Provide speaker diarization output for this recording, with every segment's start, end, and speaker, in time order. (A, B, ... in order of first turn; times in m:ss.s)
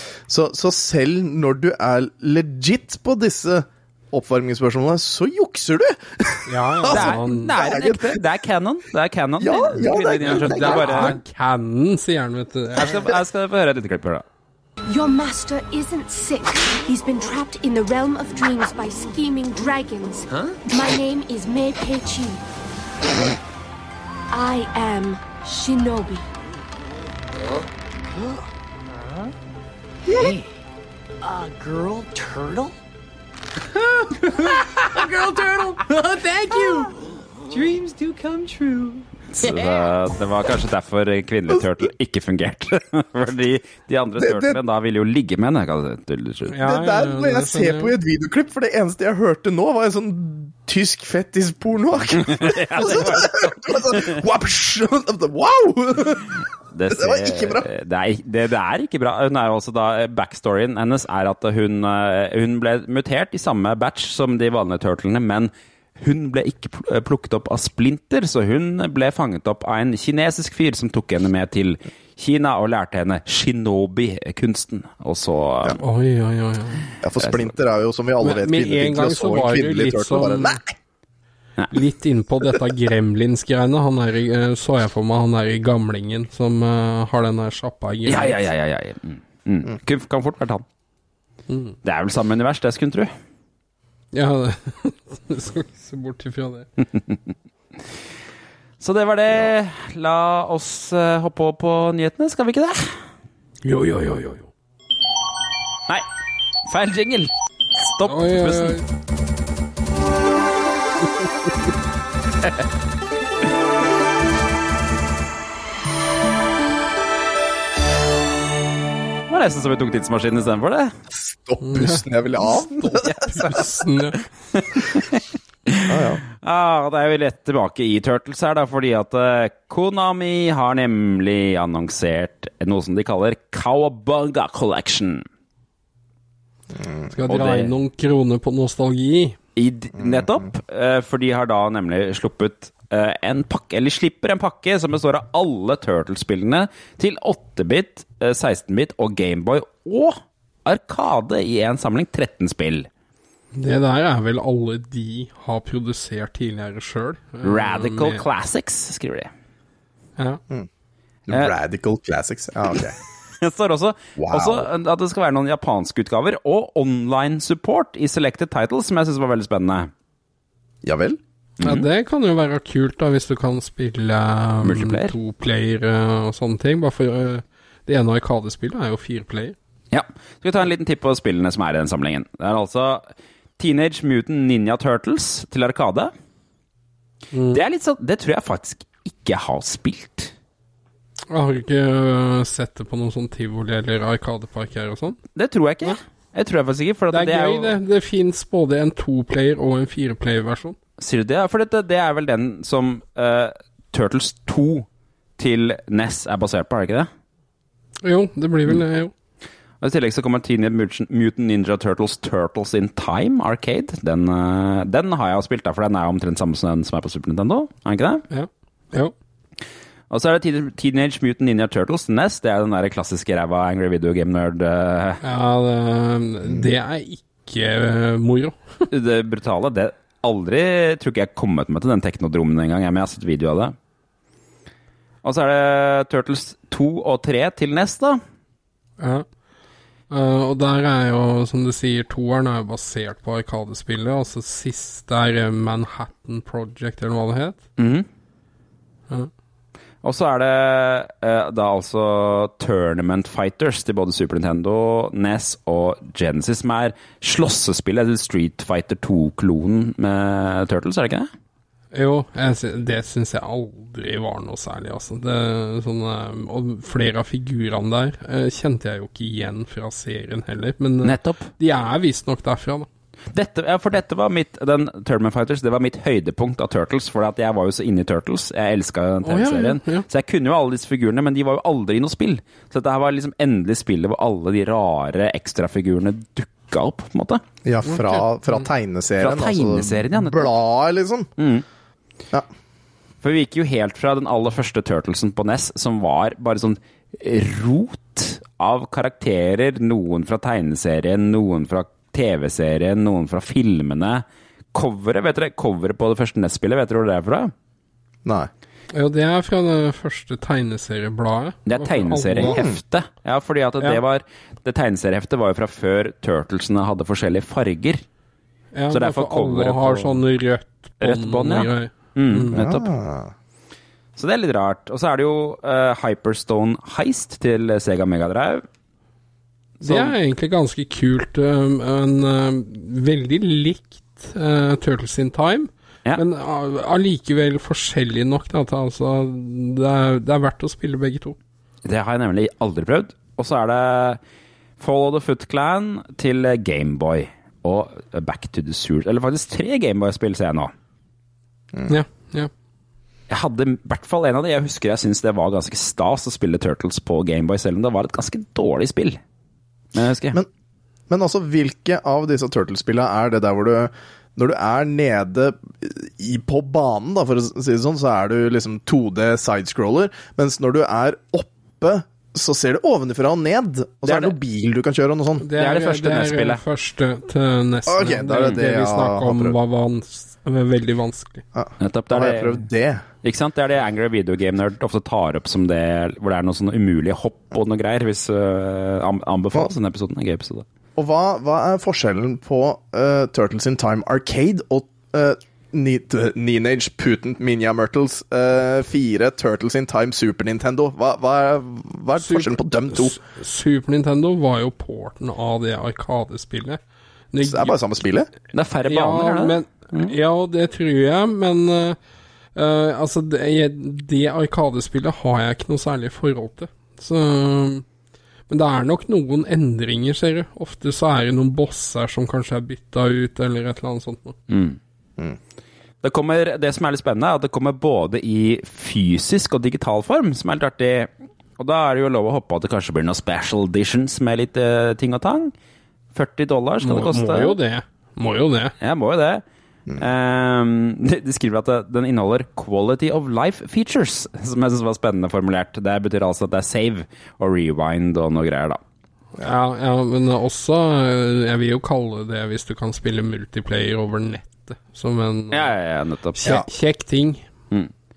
0:00.3-0:08.2 A
0:06.5-0:07.5 B
0:06.9-0:11.2 C
0:09.4-0:11.2 A
0:10.2-0:12.9 B
0:12.8-0:13.1 A
0:12.8-0:14.2 C
0:14.9-0:22.4 D
0:24.3-0:26.3 D
0:31.2-0:32.8 E
0:33.8-0:36.9 E
0:37.5-0:39.1 E
0:39.3-0:46.6 C
0:44.2-0:44.6 A
0:46.5-0:47.9 B
0:46.6-0:57.7 A
0:52.2-0:54.2 C
0:56.7-1:15.8 C
1:15.8-1:16.8 B
1:17.0-1:20.7 A
1:18.2-1:20.6 B
1:21.7-1:28.4 B
1:28.1-1:30.6 C
1:31.5-1:31.8 B
1:31.8-1:33.1 C
1:34.1-1:36.7 B
1:38.8-1:42.9 C
1:43.6-1:44.5 B
1:46.7-1:48.8 C
1:48.1-1:48.8 B
1:59.3-2:00.9 C
2:01.1-2:02.9 A
2:01.6-2:04.2 B
2:03.0-2:03.6 C
2:04.5-2:05.1 C
2:05.7-2:15.3 C
2:05.9-2:06.2 A
2:16.8-2:17.1 A
2:17.1-2:19.4 B
2:17.3-2:17.7 C
2:19.6-2:32.9 C
2:20.0-2:20.5 A
2:33.5-2:38.2 B
2:37.4-2:39.3 C
2:41.3-2:43.0 A
2:43.4-2:49.9 C
2:44.2-2:44.7 A
2:50.8-2:51.2 A
2:51.6-2:51.8 C
2:51.6-2:59.6 B
2:54.6-2:55.1 C
2:59.9-3:03.0 C
3:03.6-3:06.1 C
3:07.3-3:07.6 B
3:07.5-3:10.3 C
3:11.3-3:15.2 B
3:15.4-3:17.8 C
3:17.1-3:20.8 B
3:21.0-3:24.9 C
3:25.4-3:27.1 C
3:28.0-3:29.1 B
3:29.8-3:38.2 C
3:38.3-3:39.1 B
3:40.1-3:45.2 C
3:45.2-3:48.9 B
3:48.9-3:53.8 C
3:55.2-3:58.2 C
3:59.0-3:59.2 B
4:00.1-4:07.6 B
4:07.8-4:08.1 C
4:10.0-4:21.3 C
4:21.9-4:32.9 B
4:31.0-4:31.5 C
4:33.3-4:47.4 C
4:39.2-4:40.0 B
4:47.6-4:51.3 A
4:47.8-4:48.7 B
4:49.2-4:50.5 C
4:51.4-4:51.6 C
4:53.2-5:07.5 C
5:08.9-5:12.6 B
5:11.7-5:18.0 C
5:12.5-5:12.8 A
5:18.7-5:22.6 B
5:18.9-5:20.2 C
5:21.0-5:22.8 C
5:22.5-5:23.3 A
5:24.2-5:28.7 C
5:29.8-5:30.1 C
5:29.8-5:41.4 B
5:41.8-5:44.2 C
5:44.8-5:50.7 C
5:51.9-5:52.5 B
5:53.3-5:59.2 C
5:59.9-6:00.4 C
6:01.1-6:15.5 A
6:14.0-6:14.4 C
6:15.4-6:21.4 B
6:15.6-6:16.6 C
6:17.9-6:19.6 A
6:21.6-6:23.0 A
6:21.8-6:22.6 C
6:23.2-6:30.6 C
6:31.0-6:43.2 A
6:42.2-6:46.8 B
6:47.3-6:47.8 B
6:47.4-6:48.3 A
6:48.5-6:50.1 C
6:48.8-6:52.0 B
6:52.6-6:57.8 B
6:58.5-7:04.4 B
7:04.5-7:04.8 C
7:06.0-7:15.5 C
7:16.2-7:17.6 C
7:16.8-7:18.8 B
7:18.8-7:19.4 C
7:20.0-7:28.8 C
7:29.4-7:35.7 B
7:35.5-7:36.4 C
7:36.4-7:37.4 B